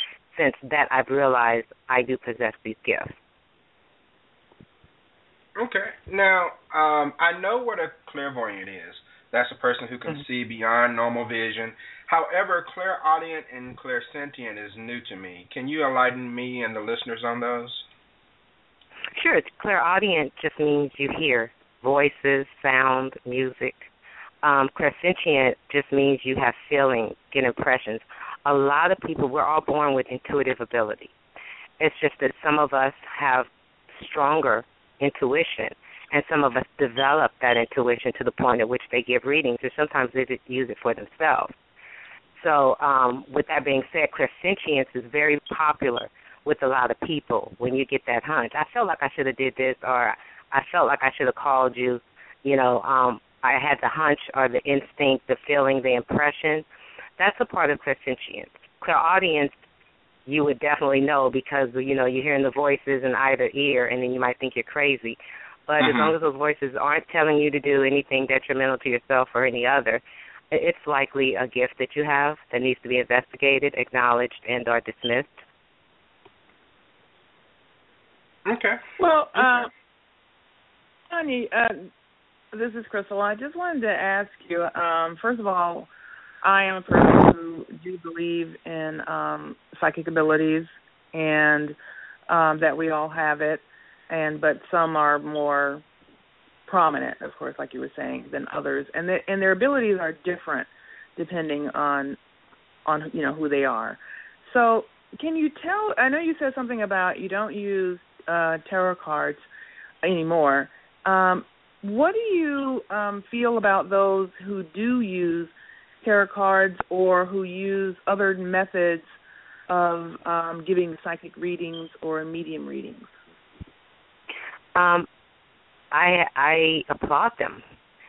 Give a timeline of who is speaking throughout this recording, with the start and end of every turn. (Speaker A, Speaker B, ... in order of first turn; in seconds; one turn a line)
Speaker A: 0.3-3.2
Speaker B: 5.5-17.9
Speaker A: 19.1-23.9
Speaker A: 24.4-31.1
Speaker A: 31.8-41.5
Speaker A: 42.4-56.6
Speaker A: 57.2-59.5
Speaker A: 60.3-75.4
Speaker B: 65.8-66.2
Speaker B: 78.5-78.8
Speaker C: 79.0-79.7
Speaker B: 79.3-79.7
Speaker C: 81.1-81.9
Speaker C: 82.5-85.9
Speaker C: 86.4-91.8
Speaker C: 92.3-95.8
Speaker C: 96.7-102.2
Speaker C: 102.8-109.4
Speaker C: 110.0-119.0
Speaker C: 119.7-123.2
Speaker A: 124.7-125.1
Speaker A: 125.9-127.6